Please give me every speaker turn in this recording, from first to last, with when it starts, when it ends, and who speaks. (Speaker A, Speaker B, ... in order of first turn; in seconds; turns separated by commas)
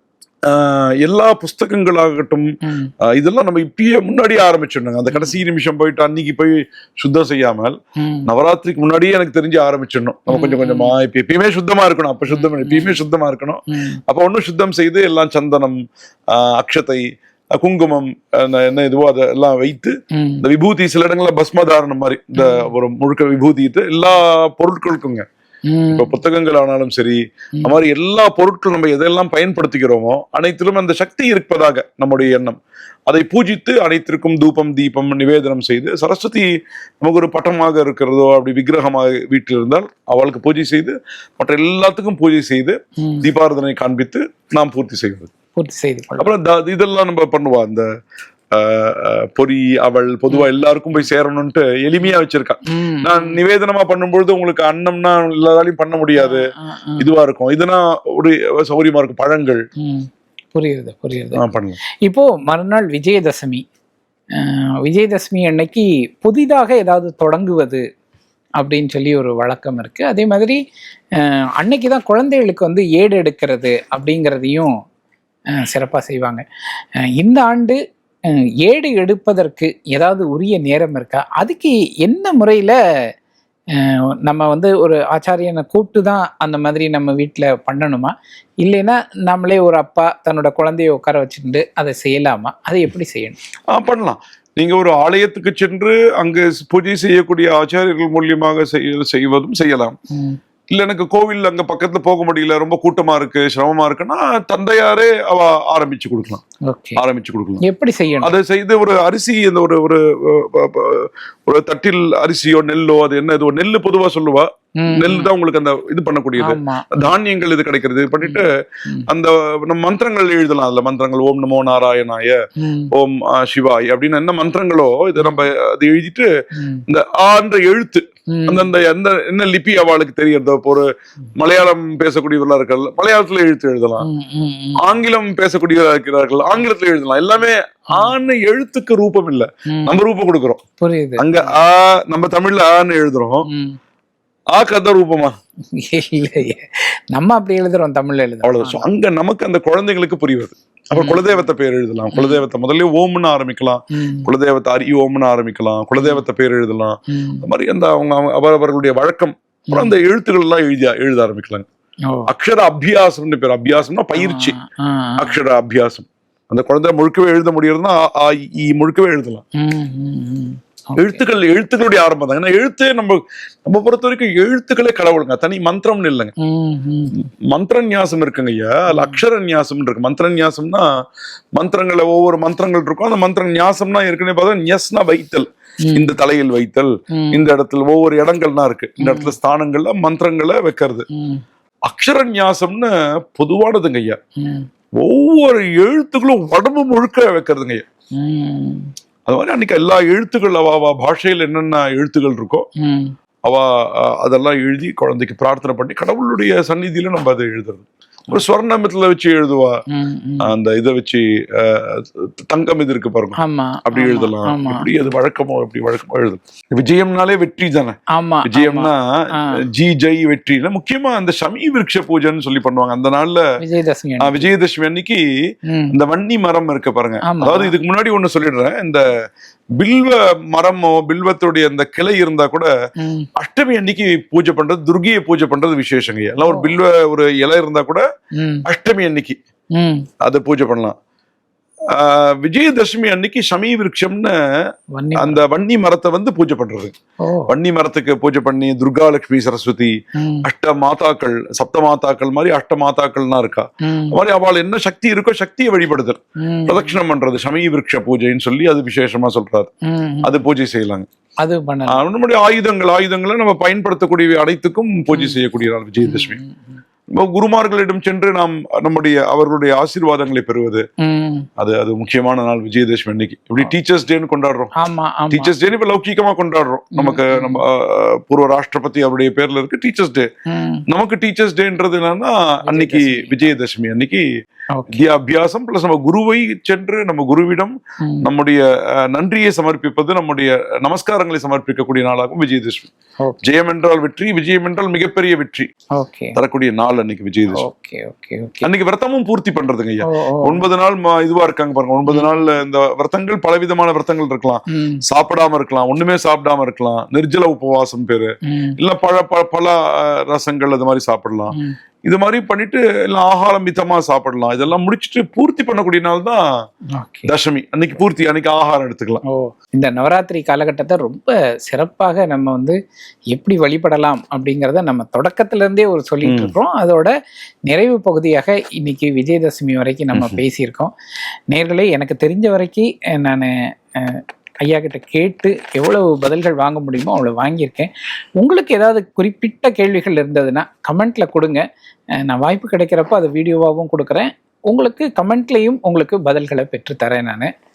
Speaker A: 0.5-2.5, Speaker B: 2.6-2.9, Speaker A: 3.1-7.8, Speaker B: 5.1-5.4, Speaker B: 8.0-8.3, Speaker A: 8.3-15.8, Speaker B: 10.3-10.9, Speaker B: 12.3-13.0, Speaker B: 13.7-14.0, Speaker A: 16.3-17.0, Speaker A: 17.6-25.2, Speaker B: 20.1-20.4, Speaker B: 22.4-22.7, Speaker B: 25.7-26.1, Speaker A: 25.9-36.5, Speaker A: 37.0-45.3, Speaker B: 43.0-43.3, Speaker B: 45.5-46.3, Speaker A: 46.2-47.8, Speaker A: 48.5-59.6, Speaker B: 52.7-53.4, Speaker B: 56.1-57.1, Speaker B: 59.8-61.4, Speaker A: 61.3-61.8, Speaker B: 62.0-63.6, Speaker B: 64.4-67.8, Speaker B: 68.6-70.6, Speaker B: 71.2-74.7, Speaker B: 75.5-76.4, Speaker B: 77.1-77.8, Speaker B: 78.6-82.8, Speaker B: 83.7-93.4, Speaker A: 93.7-100.0, Speaker B: 100.1-100.4, Speaker A: 100.7-106.4, Speaker B: 106.7-107.0, Speaker A: 107.0-107.6, Speaker B: 107.6-108.3, Speaker A: 108.2-122.4, Speaker B: 114.8-115.3, Speaker B: 116.4-116.9, Speaker B: 118.2-119.1, Speaker B: 122.6-122.9, Speaker A: 122.9-126.3, Speaker B: 125.2-125.5, Speaker B: 126.5-126.8, Speaker A: 126.9-134.1, Speaker B: 128.3-128.7, Speaker B: 134.0-134.8, Speaker A: 134.8-140.6, Speaker B: 139.7-140.0, Speaker B: 140.8-141.6, Speaker A: 141.2-143.5, Speaker B: 143.5-143.8, Speaker A: 144.5-145.3, Speaker B: 145.7-148.8, Speaker A: 148.4-161.7, Speaker B: 150.9-151.3, Speaker B: 152.1-152.4, Speaker B: 153.9-154.3, Speaker B: 156.0-156.2, Speaker B: 157.1-157.4, Speaker B: 159.7-159.9, Speaker A: 162.3-164.5, Speaker B: 164.1-165.4, Speaker A: 165.2-169.4, Speaker B: 169.6-171.2, Speaker A: 171.0-176.3, Speaker B: 176.4-177.1, Speaker A: 177.1-180.9, Speaker B: 178.9-179.2, Speaker A: 181.6-191.0, Speaker B: 185.8-186.1, Speaker B: 187.1-187.4, Speaker B: 189.0-189.3, Speaker B: 191.1-191.4, Speaker A: 191.9-194.2, Speaker B: 194.4-194.7, Speaker A: 195.0-197.8, Speaker B: 198.2-198.9, Speaker A: 199.3-202.7, Speaker B: 202.8-203.1, Speaker A: 203.4-209.8, Speaker B: 209.9-210.5, Speaker A: 210.4-223.4, Speaker B: 213.4-214.8, Speaker B: 218.1-219.6, Speaker B: 223.6-224.5, Speaker A: 224.2-225.2, Speaker B: 225.7-225.9, Speaker A: 225.9-229.0, Speaker B: 227.2-227.8, Speaker A: 229.8-232.7, Speaker B: 233.0-233.3, Speaker A: 233.4-238.0, Speaker B: 236.5-236.7, Speaker B: 238.4-238.6, Speaker A: 238.7-239.4, Speaker B: 239.8-240.1, Speaker A: 240.2-240.9, Speaker A: 241.9-244.4, Speaker B: 244.9-245.4, Speaker A: 245.2-246.9, Speaker B: 247.2-247.5, Speaker A: 247.5-259.7, Speaker B: 250.2-250.4, Speaker B: 253.8-254.2, Speaker B: 256.4-257.0, Speaker B: 259.8-260.4, Speaker A: 260.2-261.1, Speaker B: 261.4-262.0, Speaker A: 261.9-266.4, Speaker B: 265.1-265.4, Speaker B: 266.0-266.8, Speaker A: 267.1-270.8, Speaker B: 271.0-271.5, Speaker A: 271.6-274.7, Speaker B: 274.8-275.5, Speaker A: 275.3-280.3, Speaker B: 276.9-277.6, Speaker B: 280.5-280.8, Speaker A: 280.9-284.2, Speaker B: 282.6-283.5, Speaker B: 284.7-285.0, Speaker A: 284.9-292.9, Speaker A: 293.4-295.7, Speaker B: 295.9-296.4, Speaker A: 296.4-297.6, Speaker B: 297.5-298.7, Speaker A: 298.6-311.5, Speaker B: 300.1-300.6, Speaker B: 302.1-302.5, Speaker B: 304.7-305.0, Speaker B: 308.5-308.8, Speaker A: 312.1-316.4, Speaker B: 316.9-317.3, Speaker A: 317.3-319.2, Speaker B: 319.3-322.8, Speaker B: 323.3-327.1, Speaker A: 326.2-326.5, Speaker B: 327.7-330.9, Speaker A: 330.1-330.4, Speaker B: 331.5-341.6, Speaker B: 342.2-347.5